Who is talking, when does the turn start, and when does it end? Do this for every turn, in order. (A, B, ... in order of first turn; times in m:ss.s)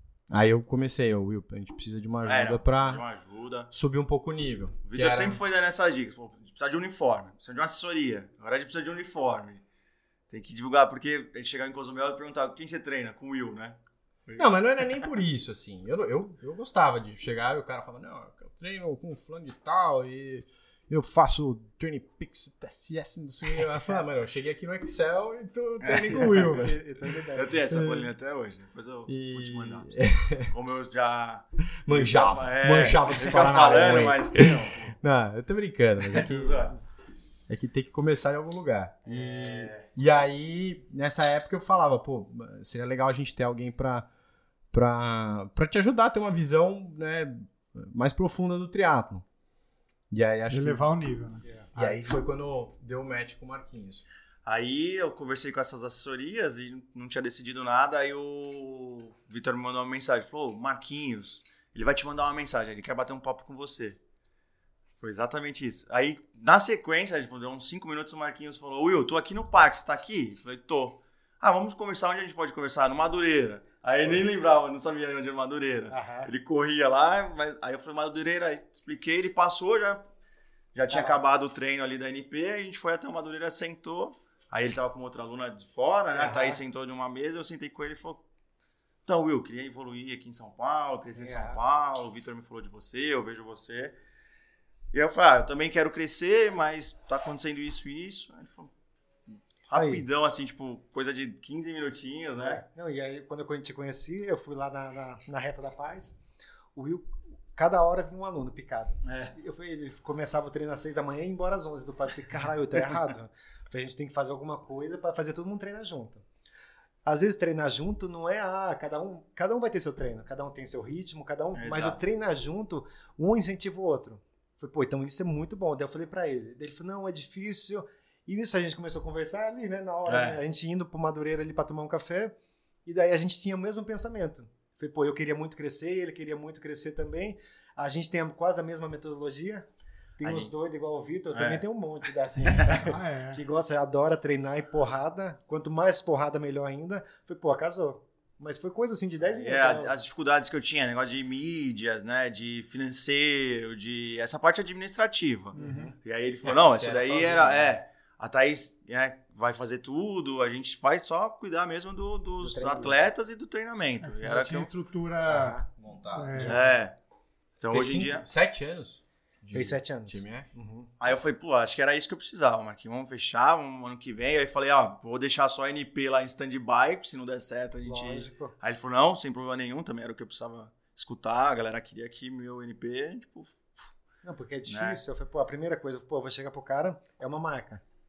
0:00.3-0:03.0 A
0:02.2-0:03.7 B
0:03.7-0:05.4 A
0:04.8-0:09.6 B
0:10.3-0:15.1 B
0:14.4-0:26.8 A
0:25.8-0:26.3 B
0:26.1-0:27.6 C
0:27.3-0:34.9 B
0:27.7-0:28.1 A
0:29.1-0:30.5 A
0:31.8-0:36.7 A
0:36.0-0:36.8 B
0:37.5-0:44.1 A
0:39.0-0:39.9 B
0:44.7-0:49.2 A
0:50.1-0:50.9 A
0:50.5-0:51.9 D
0:51.4-0:51.7 C
0:51.7-0:54.0 A
0:54.4-1:04.0 B
1:05.0-1:20.0 B
1:15.9-1:16.3 C
1:20.7-1:28.2 B
1:20.9-1:21.2 C
1:26.1-1:26.6 C
1:29.0-1:34.0 B
1:31.0-1:31.6 C
1:34.9-1:38.7 B
1:39.7-1:42.6 B
1:39.7-1:40.0 C
1:42.3-1:46.2 C
1:46.7-1:56.2 C
1:49.0-1:49.3 B
1:57.0-2:19.7 C
2:01.5-2:02.0 B
2:10.0-2:10.4 B
2:20.2-2:30.0 C
2:20.2-2:20.5 B
2:21.3-2:21.6 B
2:22.5-2:22.8 B
2:22.8-2:23.4 D
2:29.2-2:44.7 B
2:35.5-2:35.9 C
2:35.6-2:35.9 D
2:36.4-2:37.8 A
2:42.4-2:43.0 C
2:44.0-2:45.6 D
2:45.3-2:45.7 C
2:45.8-2:46.5 A
2:46.1-2:46.6 D
2:46.3-2:46.7 C
2:46.4-2:46.9 B
2:47.6-2:48.2 B
2:47.7-2:50.5 A
2:49.5-2:50.9 C
2:51.0-3:03.9 B
2:57.8-2:58.5 C
3:04.2-3:07.8 C
3:04.7-3:05.0 B